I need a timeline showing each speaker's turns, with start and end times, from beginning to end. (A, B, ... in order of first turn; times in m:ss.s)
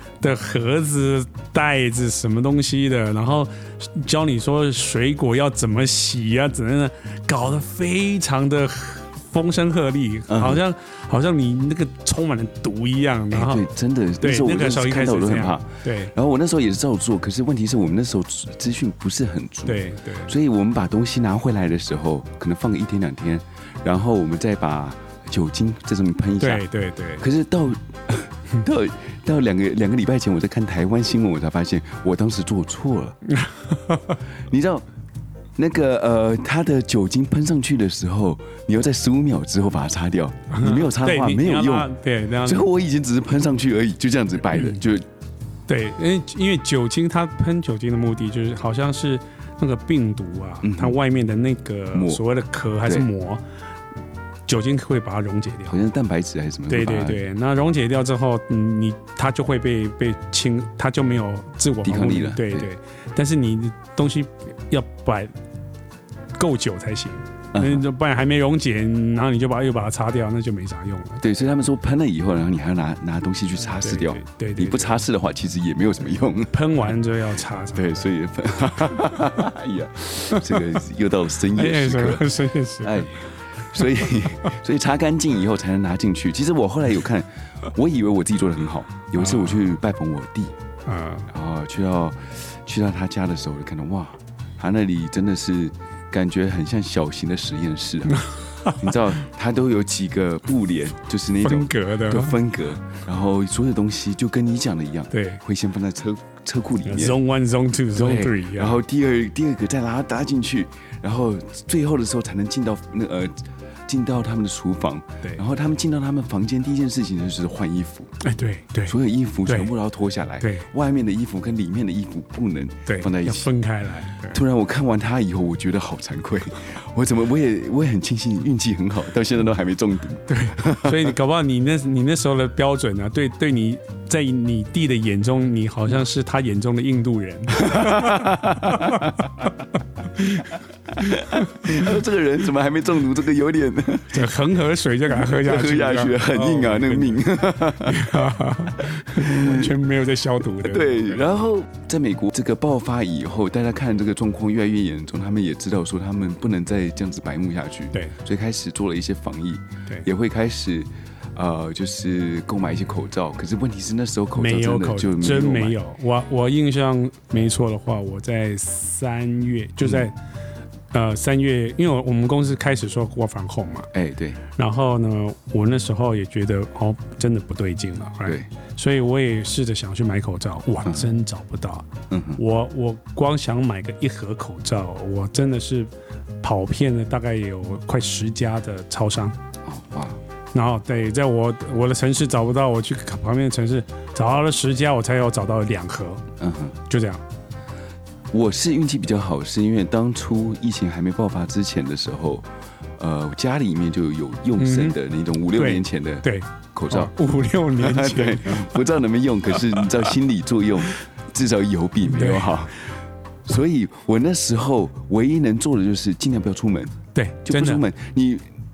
0:00.2-0:13.7 A
0:10.3-0:10.6 B
0:13.3-0:26.6 B
0:14.2-0:16.1 A
0:19.6-0:20.3 A
0:26.4-0:27.2 A
0:27.2-0:33.2 B
0:33.3-0:34.2 A
0:34.5-0:34.8 B
0:35.6-0:41.9 B
0:40.5-0:42.6 A
0:42.4-0:45.1 B
0:45.7-0:53.4 A
0:50.6-0:51.0 B
0:51.9-0:52.2 B
0:54.5-0:55.8 A
0:55.7-0:57.2 B
0:56.7-1:05.3 A
1:01.8-1:02.7 B
1:06.4-1:11.2 A
1:07.5-1:07.8 B
1:11.2-1:16.7 B
1:13.8-1:15.0 A
1:16.5-1:18.0 A
1:17.7-1:30.5 B
1:20.2-1:20.8 A
1:21.5-1:23.3 A
1:29.2-1:29.6 A
1:30.9-1:31.3 A
1:31.3-1:38.2 B
1:38.1-1:38.9 A
1:38.8-1:47.2 B
1:41.4-1:42.4 A
1:45.1-1:45.4 A
1:46.8-1:48.8 A
1:47.9-1:58.1 B
1:58.2-1:59.7 A
1:58.8-2:03.5 B
2:00.4-2:00.7 A
2:02.8-2:04.4 A
2:04.3-2:11.1 B
2:10.3-2:19.4 A
2:17.5-2:19.5 B
2:20.1-2:21.9 A
2:20.9-2:24.3 B
2:24.1-2:31.2 A
2:25.1-2:29.8 B
2:30.4-2:45.8 B
2:44.3-2:50.1 A
2:50.9-2:53.9 A
2:53.9-2:54.4 B
2:54.5-3:05.9 A
3:02.1-3:02.4 B
3:06.4-3:09.4 A
3:09.6-3:10.2 B
3:10.5-3:16.2 A
3:16.4-3:16.8 B
3:16.9-3:17.2 A
3:18.3-3:27.1 B
3:24.6-3:25.0 A
3:25.5-3:28.8 A
3:27.7-3:32.9 B
3:32.1-3:32.5 A
3:33.4-3:38.4 B
3:37.1-3:37.8 A